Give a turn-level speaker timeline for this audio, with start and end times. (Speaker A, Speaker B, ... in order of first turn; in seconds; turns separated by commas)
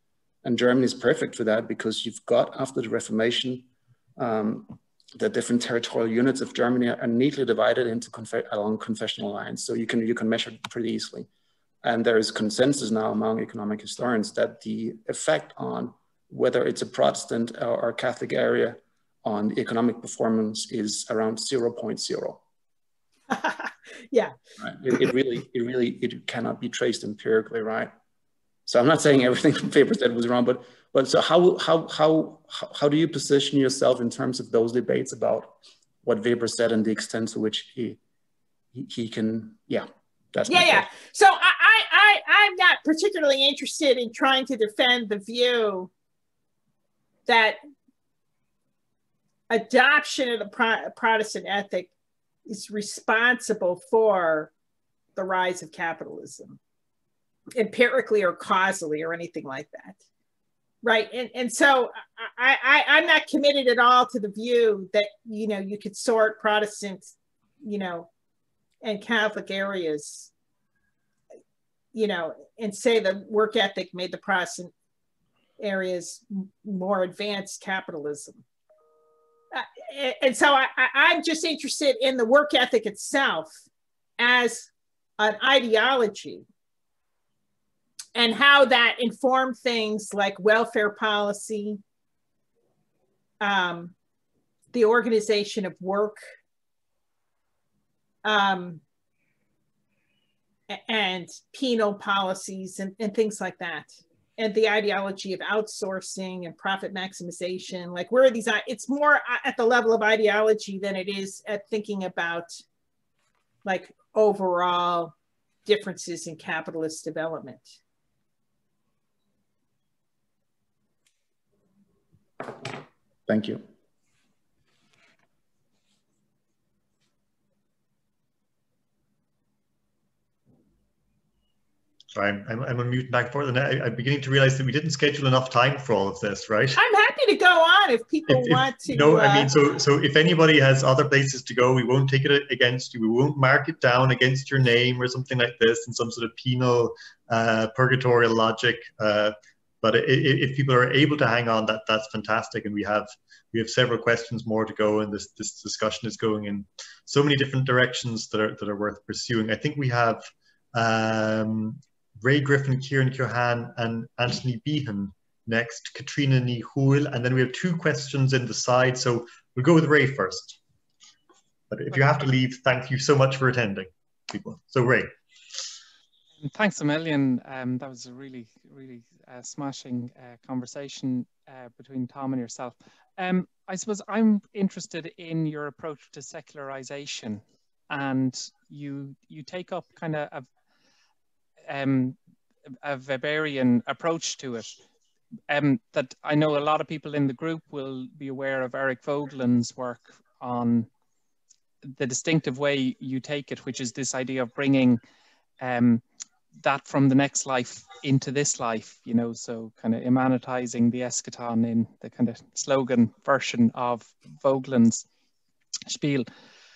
Speaker A: 0.4-11.3, Speaker A: 11.8-22.4, Speaker B: 23.3-24.3, Speaker A: 24.6-27.9, Speaker A: 28.7-38.0, Speaker A: 38.7-40.9, Speaker B: 40.5-45.9, Speaker B: 47.2-47.6, Speaker B: 49.5-51.9, Speaker B: 52.5-54.5, Speaker B: 55.1-56.6, Speaker B: 57.5-60.0, Speaker B: 60.8-67.1, Speaker B: 67.6-68.1, Speaker B: 68.8-70.3, Speaker B: 71.9-74.7, Speaker B: 75.6-78.4, Speaker B: 79.5-83.6, Speaker B: 84.2-86.5, Speaker B: 88.1-91.8, Speaker B: 93.4-93.9, Speaker B: 94.7-96.2, Speaker B: 98.2-98.8, Speaker B: 100.7-112.6, Speaker B: 113.6-115.1, Speaker B: 115.6-117.8, Speaker A: 122.4-122.7, Speaker A: 123.3-123.6, Speaker C: 132.1-136.8, Speaker B: 136.8-139.5, Speaker C: 138.3-170.6, Speaker C: 171.7-175.1, Speaker D: 176.4-190.5, Speaker D: 191.7-192.2, Speaker D: 192.8-194.8, Speaker D: 195.5-200.9, Speaker D: 201.8-205.0, Speaker D: 205.6-206.0, Speaker D: 206.6-215.0, Speaker D: 215.9-216.3